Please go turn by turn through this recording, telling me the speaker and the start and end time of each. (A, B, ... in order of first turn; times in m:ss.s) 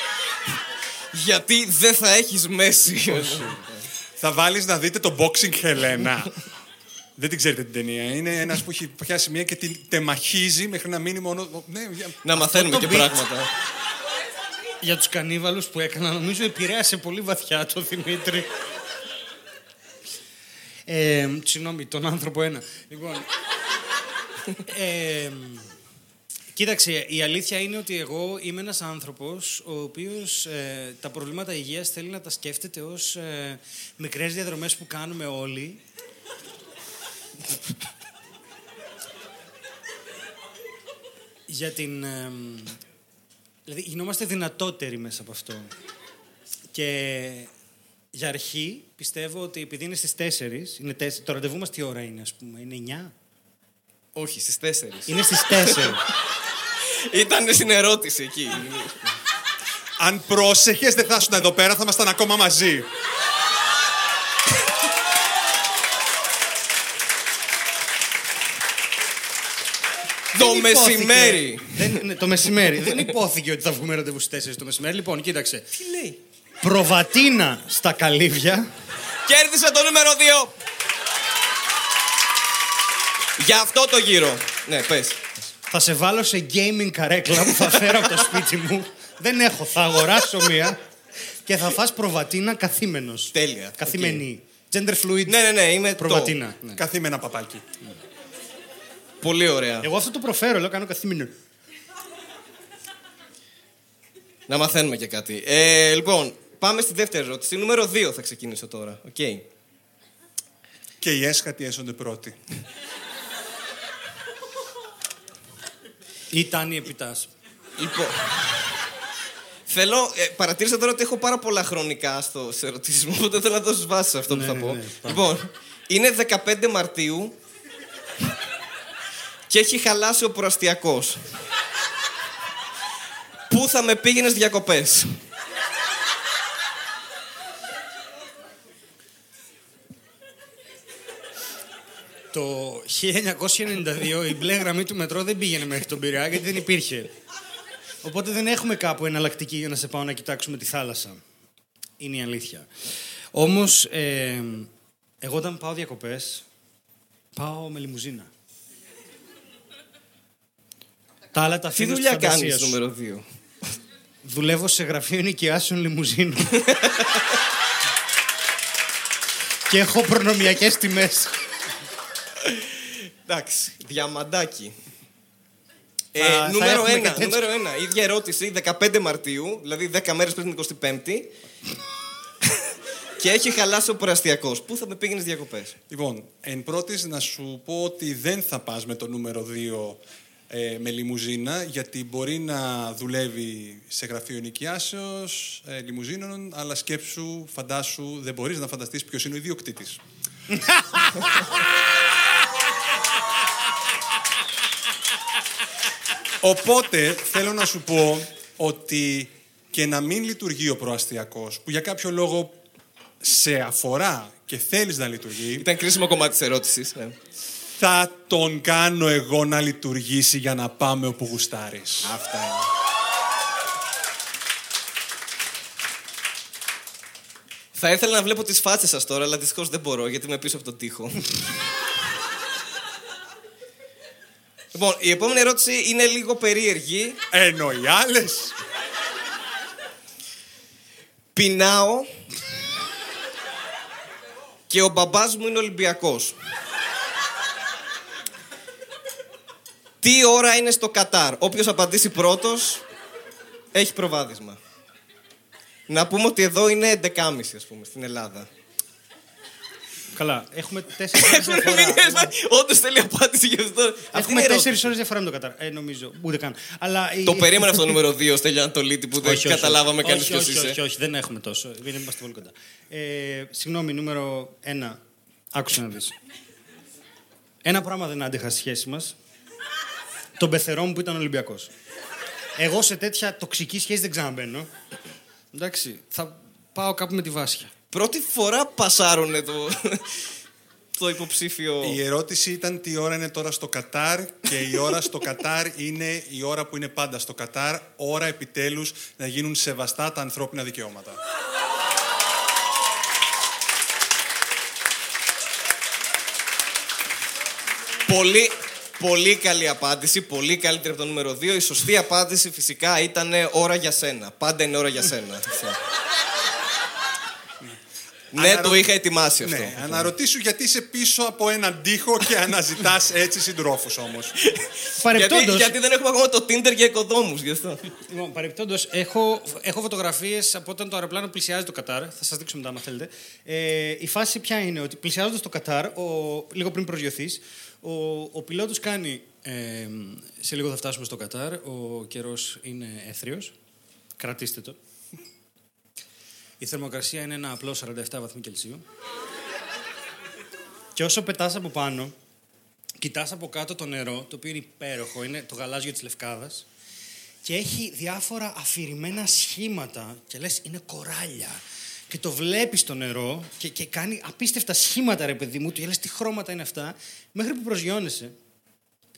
0:01.1-0:03.8 A
0:03.3-0:03.6 B
0:04.2-0:06.4 B
0:07.2-0:13.0 B
0:12.2-0:13.5 A
0:14.8-0:18.5 C
0:20.9-0:23.3 C
0:24.6-0:25.7 C
0:26.5-0:35.8 C
0:41.5-0:42.8 C
0:43.7-0:45.7 C
0:46.7-0:47.5 C
0:48.1-0:53.1 C
0:54.2-0:56.0 A
0:55.1-0:56.0 C
0:57.0-0:59.2 A
1:00.0-1:02.9 B
1:10.3-1:12.0 A
1:10.3-1:15.7 C
1:12.7-1:13.1 A
1:15.7-1:16.2 A
1:16.6-1:18.7 C
1:19.3-1:20.5 A
1:23.4-1:25.3 A
1:25.7-1:30.8 C
1:27.5-1:28.2 A
1:31.5-1:35.4 C
1:33.3-1:34.2 A
1:35.3-1:36.4 A
1:36.0-1:36.8 C
1:36.8-1:37.6 B
1:39.2-1:39.9 A
1:39.8-1:41.3 C
1:44.5-1:49.5 A
1:51.0-1:52.4 B
1:56.3-1:57.3 C
1:57.8-1:58.7 A
1:59.7-2:07.4 A
2:04.3-2:05.2 C
2:09.5-2:11.3 A
2:13.5-2:15.2 A
2:22.3-2:27.1 C
2:28.0-2:31.2 C
2:32.0-2:32.7 C
2:33.3-2:34.7 C
2:35.2-2:36.4 C
2:37.4-2:38.3 C
2:41.3-2:42.8 C
2:41.8-2:43.2 A
2:44.2-2:46.8 C
2:46.7-2:47.2 A
2:49.7-2:51.3 C
2:52.4-2:54.8 A
2:56.2-3:01.3 A
2:56.2-2:57.4 C
3:03.2-3:05.8 A
3:05.9-3:20.0 B
3:20.5-3:21.8 C
3:26.4-3:32.6 B
3:33.2-3:35.7 B
3:35.6-3:37.2 A
3:37.8-3:42.1 B
3:42.0-3:42.7 A
3:47.8-3:51.3 A
3:54.7-3:57.2 A
3:57.3-3:58.6 B
4:01.4-4:02.1 A
4:04.7-4:06.4 A
4:10.0-4:12.8 A
4:13.7-4:14.6 A
4:15.9-4:18.5 A
4:20.1-4:22.3 C
4:21.1-4:24.9 A
4:24.1-4:28.0 C
4:27.2-4:30.8 A
4:29.2-4:35.0 C
4:35.5-4:36.2 C
4:37.6-4:39.2 C
4:40.4-4:41.7 C
4:42.6-4:44.7 C
4:45.5-4:47.7 C
4:47.9-4:50.2 A
4:51.0-4:52.0 A
4:51.8-5:01.2 B
5:08.1-5:15.8 A
5:18.3-5:20.1 A
5:18.4-5:18.8 B
5:19.4-5:24.4 B
5:24.4-5:27.9 A
5:25.0-5:25.8 C
5:28.1-5:43.5 C
5:44.2-5:44.8 C
5:46.6-5:48.8 C
5:51.0-5:52.2 C
5:53.0-5:56.7 C
5:57.4-6:08.4 C